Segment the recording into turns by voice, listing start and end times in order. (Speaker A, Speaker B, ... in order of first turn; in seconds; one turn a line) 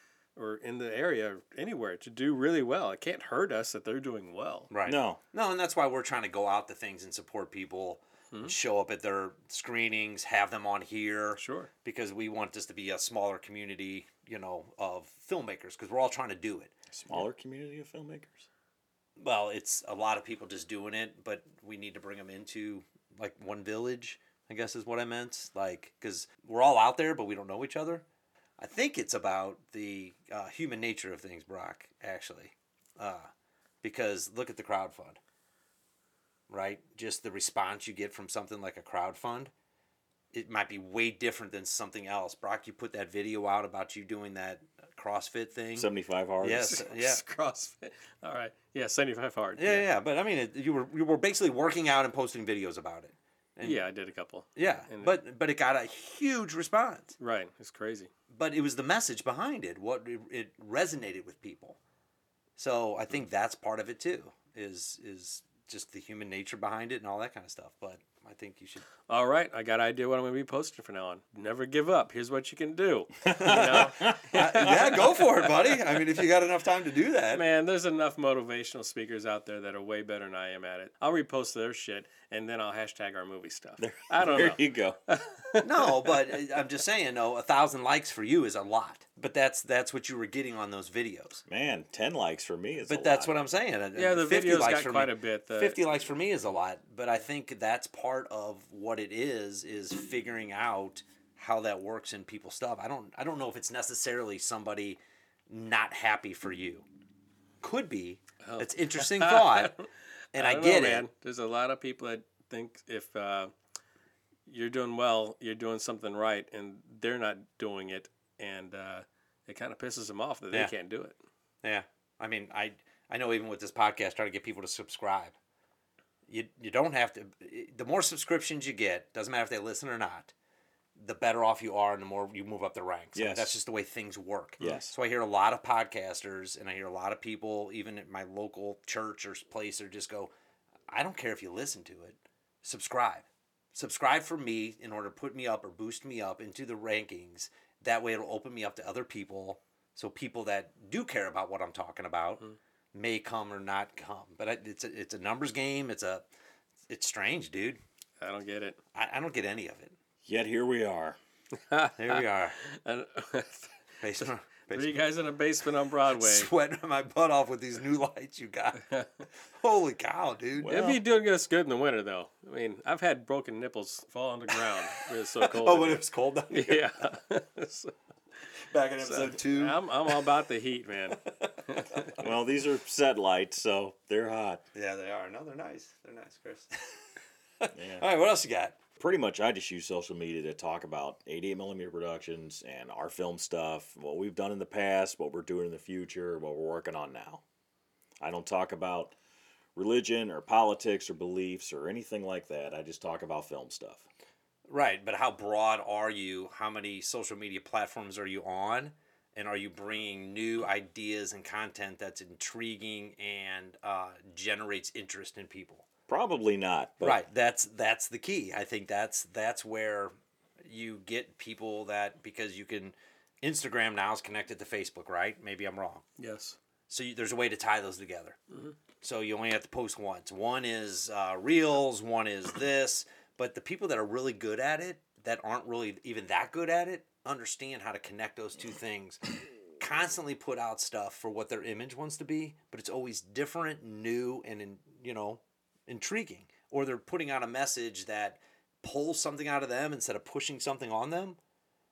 Speaker A: 0.3-4.7
Speaker B: 4.7-16.7
Speaker C: 4.8-5.2
Speaker A: 11.4-11.7
Speaker C: 16.9-18.5
Speaker B: 19.2-28.0
Speaker B: 28.6-33.3
Speaker B: 33.8-35.2
Speaker B: 36.5-39.5
Speaker B: 40.3-45.9
Speaker C: 45.8-46.8
Speaker B: 46.4-47.2
Speaker A: 46.6-49.9
Speaker B: 49.6-53.8
Speaker A: 53.6-55.1
Speaker B: 54.5-57.1
Speaker A: 57.2-58.1
Speaker B: 58.3-61.8
Speaker B: 62.6-68.8
Speaker A: 69.1-75.7
Speaker C: 73.3-74.3
Speaker B: 73.3-77.4
Speaker A: 77.3-86.4
Speaker C: 83.8-85.0
Speaker B: 85.6-91.4
Speaker C: 91.5-93.3
Speaker B: 92.8-106.8
Speaker A: 93.9-95.8
Speaker B: 107.6-109.7
Speaker A: 108.4-113.5
Speaker B: 110.3-111.0
Speaker A: 114.5-121.2
Speaker B: 121.6-125.4
Speaker B: 126.3-130.3
Speaker B: 130.9-140.3
Speaker C: 133.1-133.5
Speaker C: 134.6-134.9
Speaker B: 140.9-152.4
Speaker B: 152.9-156.3
Speaker B: 156.9-157.8
Speaker A: 158.2-158.8
Speaker B: 158.9-159.9
Speaker C: 160.2-161.2
Speaker A: 161.6-166.5
Speaker B: 162.0-162.6
Speaker B: 164.0-165.0
Speaker B: 166.1-168.8
Speaker B: 169.5-170.8
Speaker C: 170.6-171.0
Speaker A: 170.7-177.9
Speaker B: 174.5-176.8
Speaker B: 178.7-180.2
Speaker A: 179.0-182.1
Speaker B: 181.2-182.2
Speaker C: 182.2-184.6
Speaker B: 184.7-186.7
Speaker B: 187.6-188.8
Speaker C: 187.7-188.0
Speaker C: 189.0-197.4
Speaker C: 198.2-199.2
Speaker C: 199.8-204.0
Speaker B: 204.7-215.9
Speaker C: 216.1-217.2
Speaker B: 217.0-220.1
Speaker B: 220.6-226.0
Speaker A: 226.2-226.6
Speaker B: 226.9-228.4
Speaker B: 229.0-239.2
Speaker B: 239.8-251.4